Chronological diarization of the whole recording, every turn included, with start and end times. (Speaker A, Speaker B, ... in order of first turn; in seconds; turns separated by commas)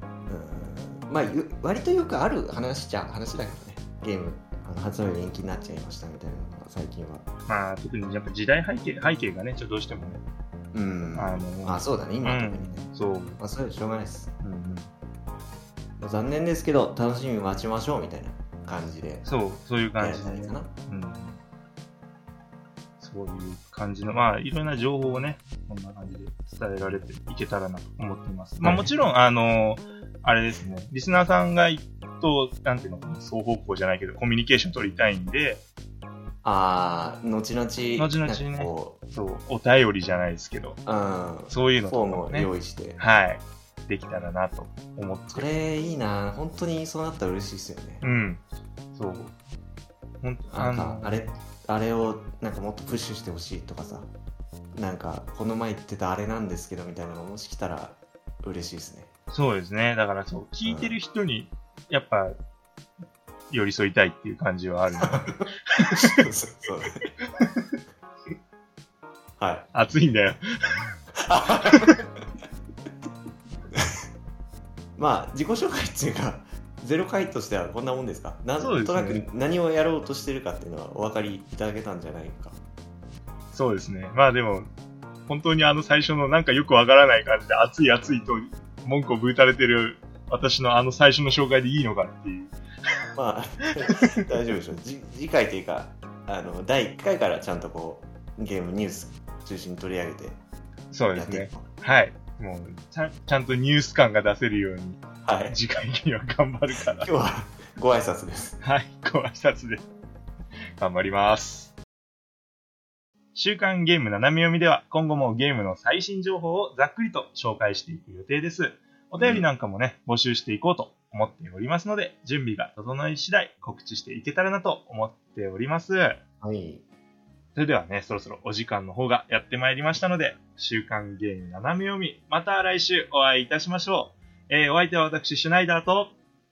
Speaker A: 0.3-7.2, Speaker B: 7.5-10.2, Speaker A: 10.7-14.3, Speaker B: 11.1-13.4, Speaker B: 14.4-14.9, Speaker A: 16.0-19.2, Speaker B: 19.2-21.4, Speaker A: 20.0-20.7, Speaker B: 23.0-35.6, Speaker A: 28.6-28.9, Speaker A: 36.4-39.0, Speaker B: 38.0-40.8, Speaker A: 40.9-43.0, Speaker B: 41.5-45.5, Speaker A: 45.3-48.1, Speaker B: 48.0-48.4, Speaker B: 48.9-49.3, Speaker B: 50.2-51.2, Speaker A: 50.5-54.1, Speaker A: 54.8-59.1, Speaker B: 59.3-62.4, Speaker A: 60.6-61.0, Speaker B: 63.5-66.2, Speaker A: 64.9-65.4, Speaker A: 66.0-67.0, Speaker A: 69.4-69.7, Speaker B: 69.7-70.9, Speaker A: 71.3-71.9, Speaker B: 71.6-72.0, Speaker A: 75.0-82.6, Speaker B: 78.6-79.2, Speaker B: 83.5-84.7, Speaker B: 85.3-92.5, Speaker A: 93.2-100.4, Speaker B: 100.9-107.1, Speaker A: 101.1-101.7, Speaker A: 105.2-105.6, Speaker A: 106.8-108.5, Speaker B: 108.6-109.9, Speaker B: 110.8-111.8, Speaker B: 113.3-126.2, Speaker A: 119.2-119.5, Speaker A: 126.4-126.8, Speaker B: 127.5-136.1